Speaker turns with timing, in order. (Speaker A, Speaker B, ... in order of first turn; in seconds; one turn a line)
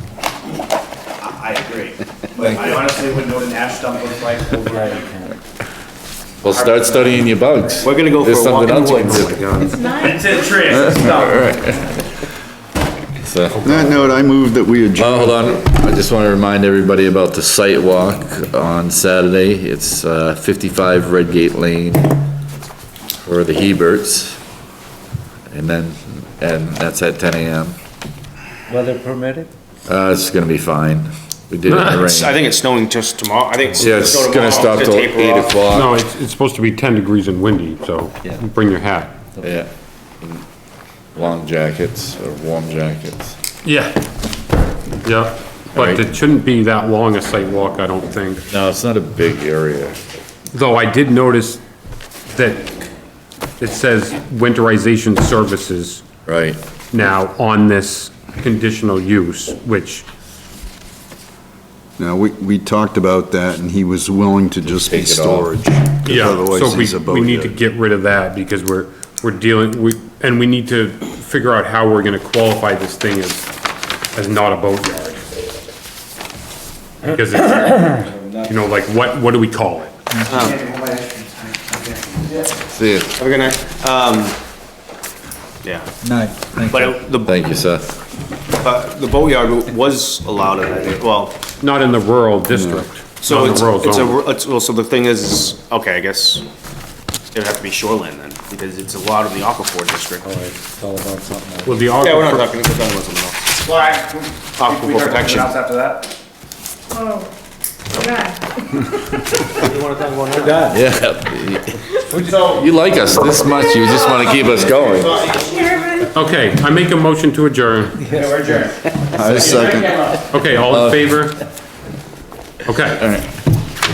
Speaker A: 1.2-5.2
Speaker B: 2.5-2.8
Speaker C: 4.7-5.3
Speaker B: 6.4-9.4
Speaker A: 6.5-7.8
Speaker D: 7.8-9.9
Speaker E: 9.6-10.3
Speaker A: 9.9-11.6
Speaker B: 10.7-12.0
Speaker B: 13.2-13.6
Speaker F: 13.6-15.6
Speaker B: 15.0-22.2
Speaker B: 23.2-24.4
Speaker B: 25.5-27.8
Speaker C: 28.7-29.5
Speaker B: 29.9-32.3
Speaker G: 31.7-32.1
Speaker D: 31.9-35.6
Speaker B: 33.8-36.0
Speaker G: 35.7-39.1
Speaker B: 39.4-39.7
Speaker B: 41.1-43.4
Speaker G: 43.6-44.0
Speaker G: 45.0-48.5
Speaker B: 45.8-46.0
Speaker B: 48.5-50.0
Speaker G: 50.5-51.6
Speaker G: 52.3-52.8
Speaker G: 53.6-56.0
Speaker B: 56.3-56.6
Speaker G: 56.9-60.1
Speaker F: 62.0-67.5
Speaker B: 64.7-65.5
Speaker G: 66.0-73.5
Speaker G: 74.1-75.2
Speaker G: 77.1-80.0
Speaker C: 78.2-78.5
Speaker D: 80.3-80.6
Speaker A: 80.3-82.5
Speaker B: 82.7-83.1
Speaker D: 83.2-84.3
Speaker D: 85.6-85.9
Speaker B: 86.0-87.9
Speaker D: 86.7-87.3
Speaker D: 88.6-91.4
Speaker G: 91.6-94.2
Speaker F: 92.5-92.9
Speaker D: 93.2-96.5
Speaker D: 97.3-100.3
Speaker C: 100.2-102.0
Speaker G: 101.7-102.5
Speaker D: 102.0-103.7
Speaker A: 103.6-106.1
Speaker D: 104.6-105.5
Speaker E: 106.9-107.3
Speaker E: 107.9-108.4
Speaker D: 109.5-110.7
Speaker C: 110.4-110.8
Speaker B: 110.7-111.8
Speaker A: 112.1-112.7
Speaker B: 112.6-115.1
Speaker A: 114.5-115.7
Speaker E: 115.8-116.1
Speaker G: 116.1-118.1
Speaker C: 118.0-118.4
Speaker A: 118.1-120.2
Speaker F: 119.1-120.0
Speaker G: 120.3-121.4
Speaker B: 120.7-121.2
Speaker G: 122.7-123.0
Speaker B: 123.0-123.3